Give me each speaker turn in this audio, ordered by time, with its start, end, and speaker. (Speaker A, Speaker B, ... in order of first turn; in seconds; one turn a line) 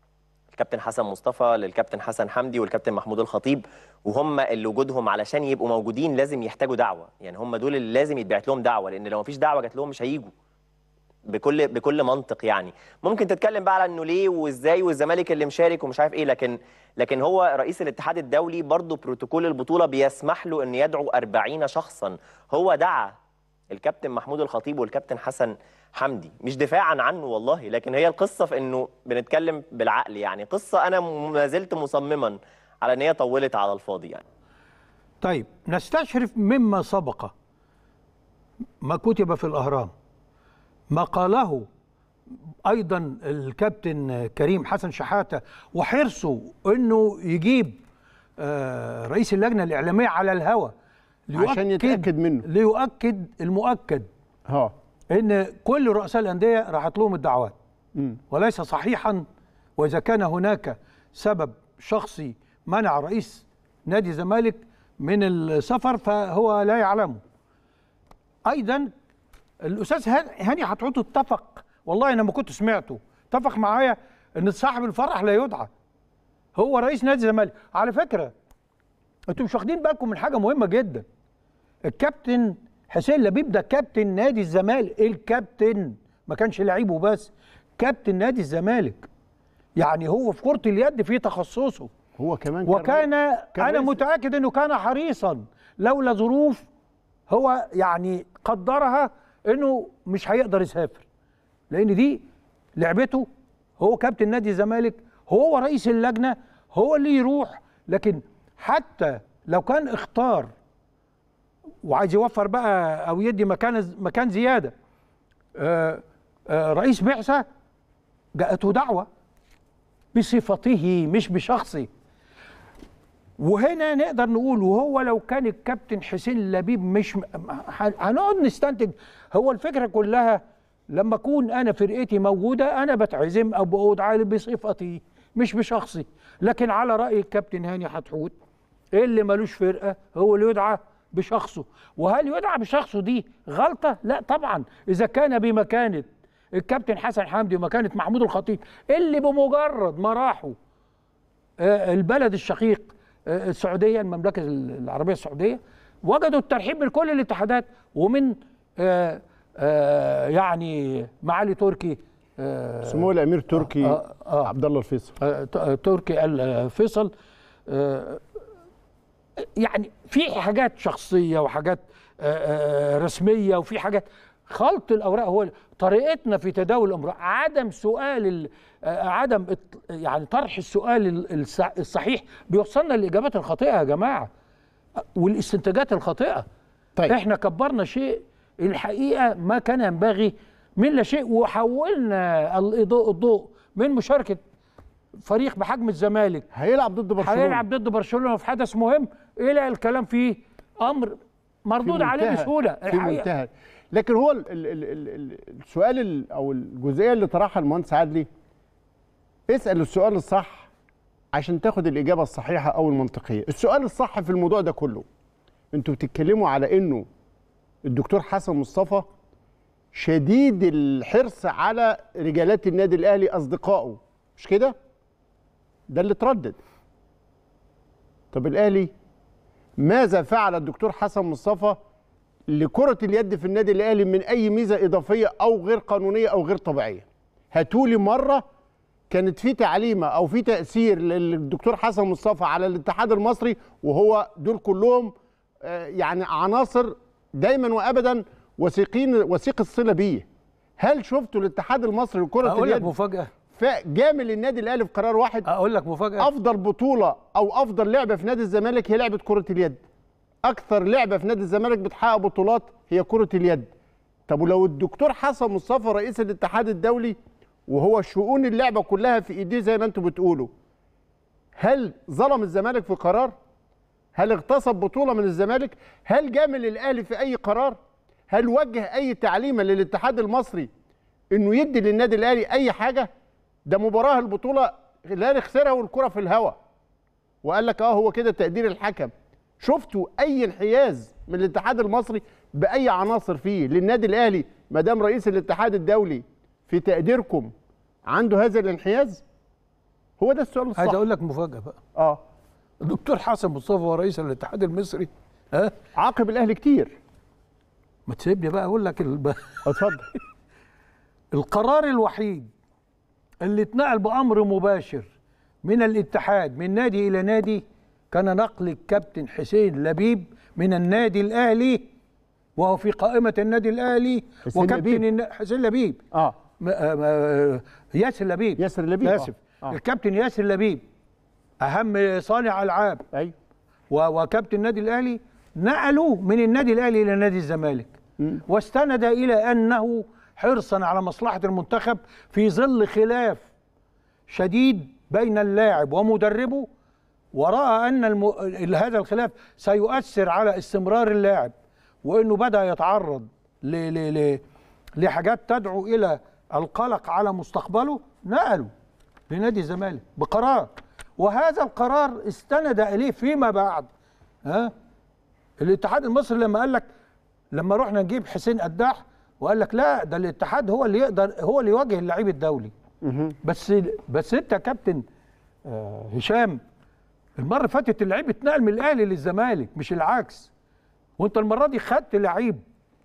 Speaker A: 0.5-10.3
Speaker A: 11.3-23.1
Speaker A: 23.7-34.2
Speaker B: 35.2-37.3
Speaker B: 38.8-39.9
Speaker B: 40.9-41.7
Speaker B: 42.7-47.8
Speaker B: 48.4-50.7
Speaker B: 51.3-54.1
Speaker C: 51.4-52.5
Speaker B: 55.1-57.6
Speaker B: 58.3-59.2
Speaker B: 59.8-67.2
Speaker B: 68.5-68.9
Speaker B: 69.6-75.7
Speaker B: 76.6-78.3
Speaker B: 79.3-81.0
Speaker B: 81.9-89.1
Speaker B: 89.8-91.9
Speaker C: 92.2-94.0
Speaker B: 92.7-96.6
Speaker B: 97.3-101.0
Speaker B: 101.7-102.2
Speaker B: 102.8-103.3
Speaker B: 103.8-110.5
Speaker B: 111.8-114.7
Speaker B: 115.6-117.5
Speaker B: 118.4-119.1
Speaker B: 120.1-121.9
Speaker B: 123.4-138.3
Speaker B: 138.9-150.6
Speaker B: 151.6-164.5
Speaker C: 162.8-165.1
Speaker B: 165.2-167.1
Speaker B: 167.7-168.2
Speaker B: 169.6-184.3
Speaker B: 185.2-186.5
Speaker B: 187.1-194.4
Speaker B: 195.2-196.5
Speaker C: 196.5-197.6
Speaker B: 197.2-203.3
Speaker C: 201.8-208.3
Speaker C: 209.5-210.7
Speaker C: 211.3-215.1
Speaker C: 215.7-217.1
Speaker C: 217.8-219.1
Speaker C: 219.9-224.8
Speaker C: 225.9-226.6
Speaker C: 228.3-228.9
Speaker C: 229.8-231.8
Speaker C: 232.5-238.4
Speaker C: 239.1-250.3
Speaker C: 250.8-252.9
Speaker B: 252.4-253.3
Speaker C: 253.5-255.5
Speaker B: 255.5-256.3
Speaker C: 256.2-259.8
Speaker C: 260.4-263.7
Speaker C: 264.3-267.2
Speaker C: 267.7-270.5
Speaker C: 271.6-273.4
Speaker C: 274.2-277.8
Speaker C: 278.3-280.7
Speaker C: 281.3-283.1
Speaker C: 283.7-286.6
Speaker C: 287.4-297.5
Speaker C: 298.1-299.2
Speaker C: 300.2-301.0
Speaker B: 300.8-301.8
Speaker C: 302.0-302.2
Speaker B: 302.8-305.7
Speaker C: 306.0-306.9
Speaker B: 308.1-309.8
Speaker C: 309.7-310.1
Speaker B: 311.3-312.5
Speaker B: 313.4-315.1
Speaker B: 315.6-321.9
Speaker B: 322.6-326.0
Speaker C: 324.5-325.0
Speaker B: 326.6-330.8
Speaker C: 328.6-329.8
Speaker B: 331.6-333.0
Speaker B: 333.9-337.9
Speaker B: 338.5-343.5
Speaker B: 344.3-346.7
Speaker B: 347.3-354.4
Speaker B: 355.0-358.7
Speaker B: 359.3-363.9
Speaker B: 364.4-364.7
Speaker B: 365.6-366.9
Speaker B: 367.5-372.7
Speaker C: 373.0-373.4
Speaker B: 373.4-375.0
Speaker B: 375.7-376.6
Speaker B: 377.4-380.5
Speaker B: 381.2-382.6